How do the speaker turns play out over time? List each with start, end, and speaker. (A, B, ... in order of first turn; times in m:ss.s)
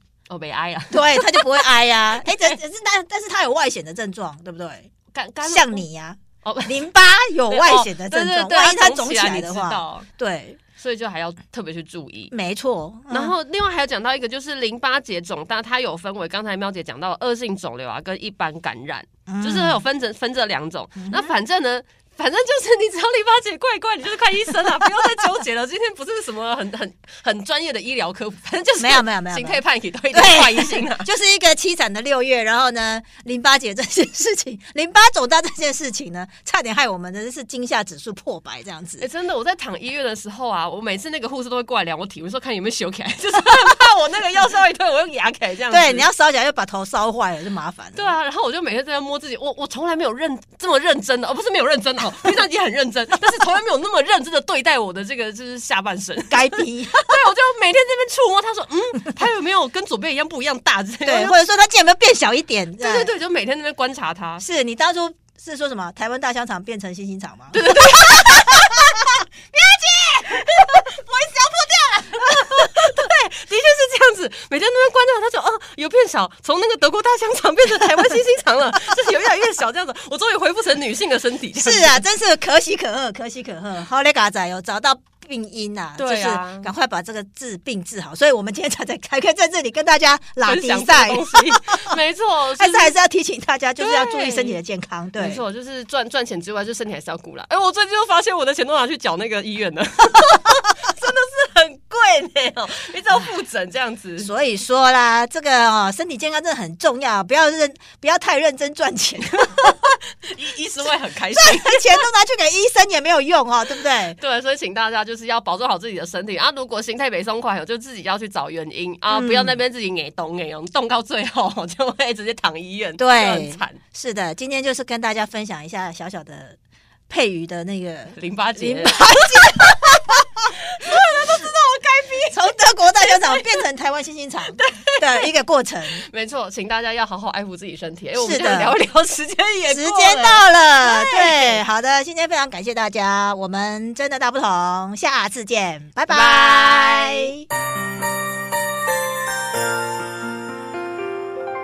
0:00.3-0:01.7 A
0:00.9-0:04.9 B
0:05.1-0:05.8 A
0:05.4-0:10.6 B
0:06.4-0:06.8 A
0:07.5-0:10.1 A
0:10.8-0:12.3 A
0:12.3-0:13.4 B
0:13.1-0:31.1 A
0:19.3-0:19.8 B
0:21.0-0:21.3 B
0:28.8-0:39.1 B
0:39.0-0:46.1 A
0:45.7-0:48.2 B
0:47.9-1:01.4 A
0:56.3-0:57.2 B
1:01.0-1:03.1 B
1:02.8-1:04.4 A
1:04.4-1:08.9 B
1:07.5-1:08.9 A
1:09.5-1:12.8 B
1:12.1-1:22.0 A
1:21.5-1:32.0 B
1:26.0-1:26.7 A
1:30.4-1:32.9 A
1:32.6-1:35.4 B
1:33.8-1:34.6 A
1:35.2-1:44.3 A
1:44.2-1:49.9 B
1:49.4-1:52.0 A
1:51.3-1:54.2 B
1:54.2-2:03.8 A
1:59.1-1:59.6 B
2:03.0-2:06.6 B
2:07.1-2:10.2 B
2:08.1-2:13.6 A
2:12.3-2:16.0 B
2:14.5-2:15.3 A
2:15.9-2:21.6 A
2:18.2-2:18.8 B
2:19.7-2:27.4 B
2:26.1-2:27.3 A